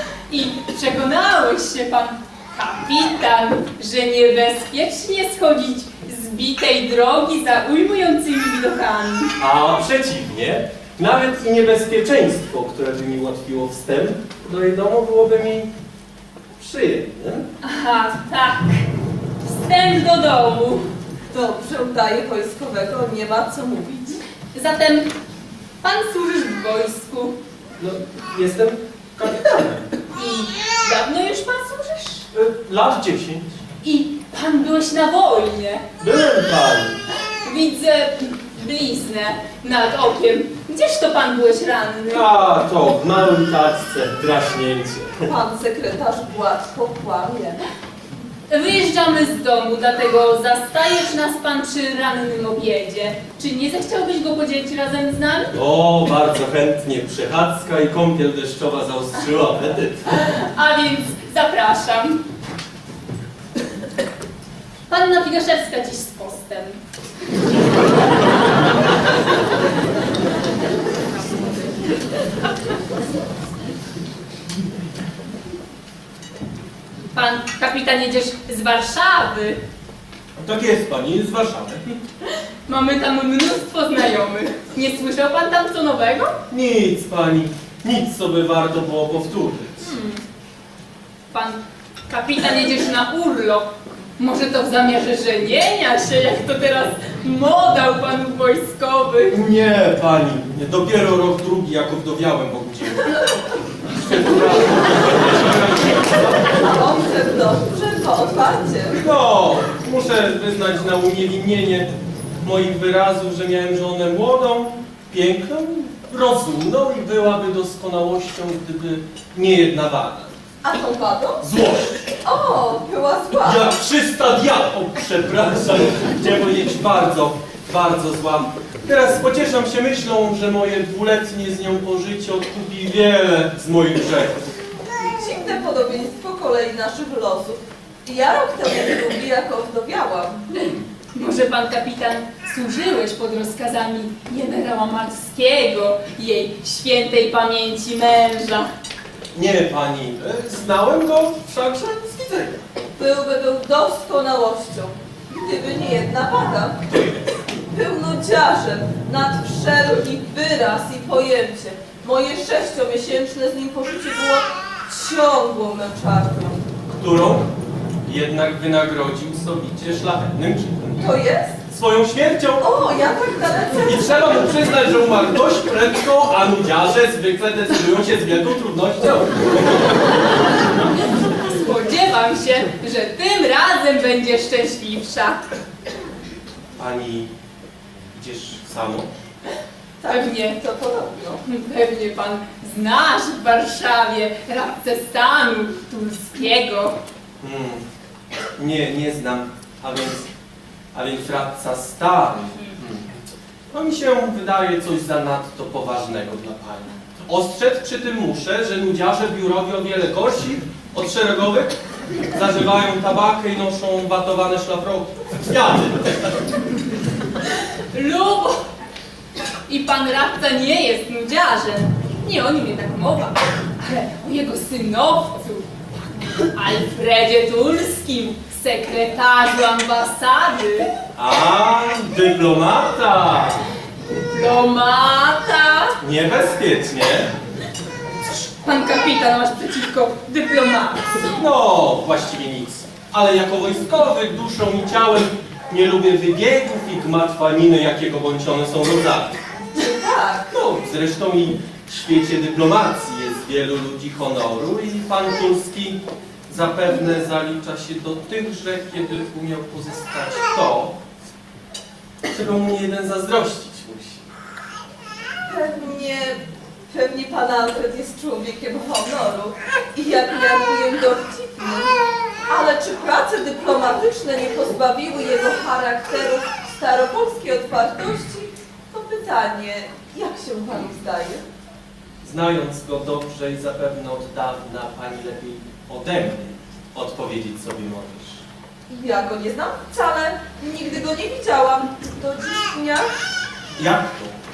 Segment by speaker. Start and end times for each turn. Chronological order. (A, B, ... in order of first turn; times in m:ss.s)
0:00.3-0:09.3 A
0:09.4-0:15.7 B
0:16.6-0:17.5 B
0:17.6-0:18.9 A
0:19.4-0:20.9 A
0:21.3-0:24.2 C
0:24.5-0:25.1 A
0:25.8-0:27.4 A
0:27.8-0:29.9 B
0:30.1-0:32.3 A
0:32.3-0:33.5 B
0:33.8-0:35.8 A
0:36.0-0:37.0 B
0:37.4-0:42.4 A
0:42.1-0:45.3 B
0:45.3-0:47.6 C
0:48.5-0:55.5 A
0:55.5-1:00.1 B
1:00.1-1:02.2 A
1:04.9-1:06.8 A
1:17.1-1:19.6 A
1:20.4-1:22.0 B
1:22.7-1:26.4 A
1:26.5-1:29.9 B
1:29.8-1:30.2 A
1:31.3-1:39.4 A
1:39.3-1:43.3 B
1:43.9-1:46.6 B
1:46.4-1:49.0 C
1:48.9-1:51.9 B
1:52.4-2:00.4 B
2:00.6-2:01.4 C
2:01.4-2:02.0 B
2:02.2-2:03.7 C
2:03.4-2:14.4 B
2:15.1-2:20.7 C
2:21.2-2:28.7 A
2:29.3-2:32.6 B
2:33.0-2:36.8 C
2:36.9-2:37.3 B
2:37.7-2:46.6 C
2:46.9-2:47.5 B
2:48.1-2:51.1 B
2:51.0-2:51.6 C
2:51.7-2:52.7 B
2:52.6-2:54.0 C
2:53.8-3:00.0 B
3:01.3-3:05.5 A
3:06.8-3:07.3 B
3:08.1-3:09.1 B
3:10.0-3:11.4 C
3:10.0-3:10.6 A
3:11.4-3:17.0 A
3:17.4-3:17.8 B
3:18.6-3:20.3 B
3:20.9-3:23.1 B
3:23.7-3:31.8 B
3:32.3-3:36.4 B
3:37.9-3:38.6 A
3:39.7-3:45.7 A
3:46.4-3:50.9 A
3:51.2-3:53.6 B
3:54.1-3:56.0 A
3:56.0-3:57.3 B
3:58.2-4:01.3 A
4:01.4-4:09.4 B
4:09.7-4:10.5 C
4:10.5-4:21.0 B
4:22.3-4:24.2 B
4:25.5-4:41.4 C
4:42.2-4:48.4 B
4:48.9-4:53.1 C
4:53.8-4:54.4 B